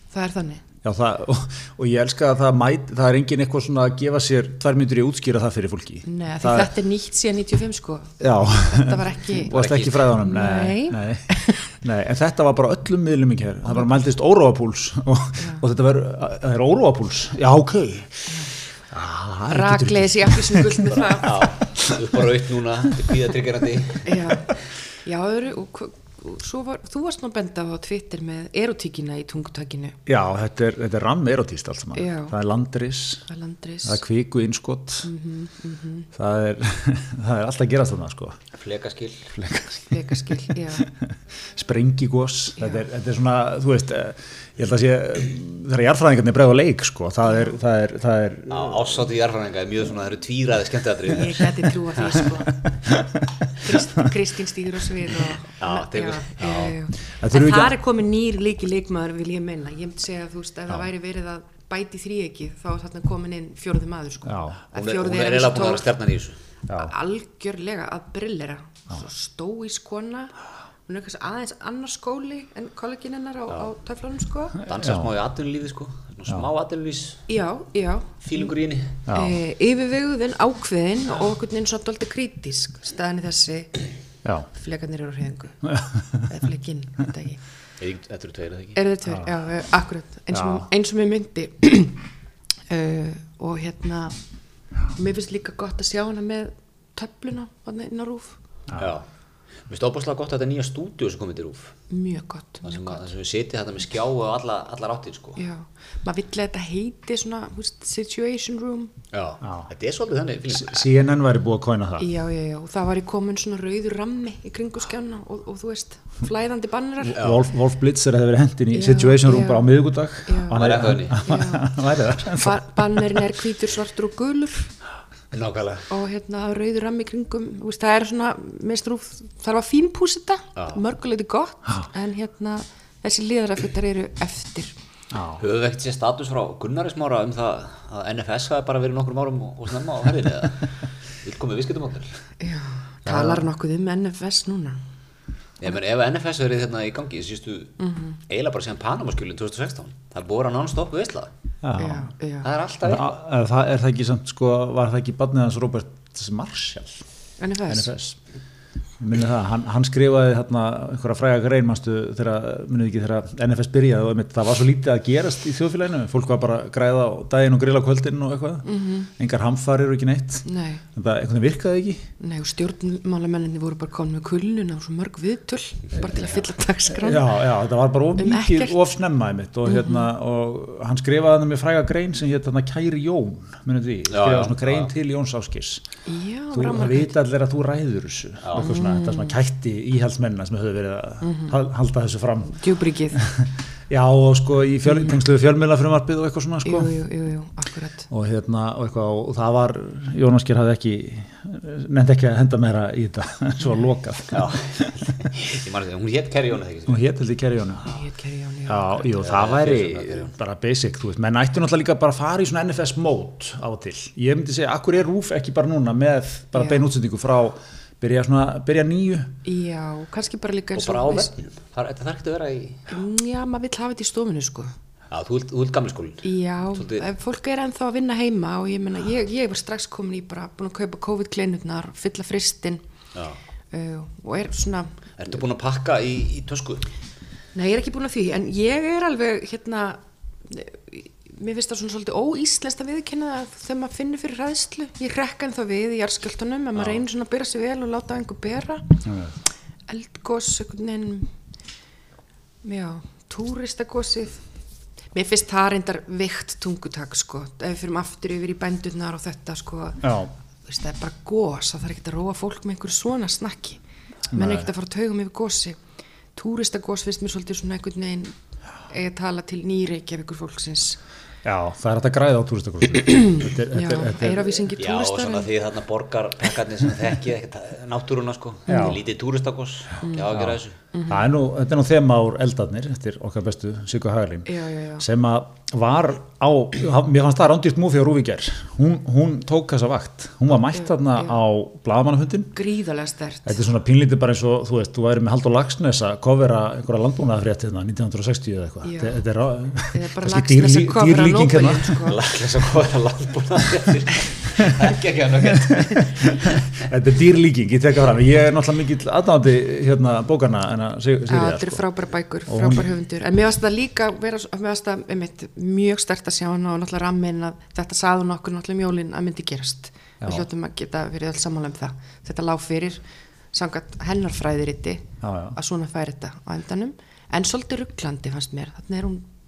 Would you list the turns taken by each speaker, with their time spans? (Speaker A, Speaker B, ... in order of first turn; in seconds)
Speaker A: 0.1-0.6, 6.0-9.6, 10.1-11.7, 19.5-21.5, 24.1-24.5, 25.0-30.0, 31.9-32.3, 33.3-34.0, 35.0-36.1, 39.9-40.9, 51.1-52.6, 53.6-65.9, 66.7-70.3, 70.9-74.6, 77.3-78.5, 79.1-83.8, 84.5-85.6, 86.3-87.4, 88.8-92.0, 92.7-94.2, 95.0-98.4, 101.9-103.0, 105.4-108.9, 112.0-117.2, 118.7-121.7, 122.4-124.7, 125.9-134.7, 142.4-144.8, 147.8-148.2, 151.8-152.5, 157.4-157.9, 168.7-169.1, 170.4-170.8, 172.2-177.4, 178.2-178.8, 179.7-180.1, 186.1-187.1, 188.6-189.3, 191.2-191.5, 192.5-193.2, 196.6-198.1, 207.9-209.1, 216.6-216.9, 219.4-221.4, 222.9-224.7, 226.2-232.8, 233.7-234.9, 237.6-248.9, 249.9-251.3, 252.6-254.4, 255.1-260.1, 260.7-263.8, 264.3-265.8, 266.4-268.4, 268.9-271.0, 273.1-275.5, 280.0-280.3, 280.9-281.3, 284.5-285.1, 292.6-293.6, 298.8-299.2, 299.9-302.2, 311.3-329.3
Speaker B: 0.8-6.7, 8.2-18.3, 18.9-22.2, 30.1-33.2, 33.8-35.1, 36.1-38.4, 39.3-49.1, 52.7-53.4, 56.4-57.8, 64.3-64.6, 74.8-75.1, 79.1-79.4, 85.7-86.3, 90.3-90.7, 109.4-109.7, 110.5-112.1, 117.0-123.3, 135.1-135.4, 143.1-143.5, 151.6-152.1, 152.8-157.0, 157.7-158.2, 159.0-172.1, 176.9-185.8, 186.5-192.6, 193.2-196.9, 198.1-204.9, 206.9-207.9, 208.7-219.4, 249.1-249.3, 260.0-260.3, 264.3-264.7, 271.4-274.7, 278.7-279.0, 281.1-292.6, 293.5-302.0, 305.4-311.8, 312.5-312.9, 320.2-320.5, 325.2-325.6
Speaker C: 9.5-10.1, 20.9-24.3, 38.5-39.3, 48.5-52.0, 55.6-56.8, 64.7-66.4, 74.7-77.3, 78.2-79.0, 87.8-88.8, 98.8-99.0, 99.7-101.8, 102.6-105.4, 109.1-110.8, 117.2-117.4, 120.5-121.3, 125.3-125.9, 135.4-142.2, 145.6-151.3, 152.4-153.1, 184.1-184.9, 188.4-188.7, 204.3-207.1, 209.2-210.3, 220.8-222.9, 225.1-227.1, 235.2-236.9, 274.8-280.8, 302.1-306.8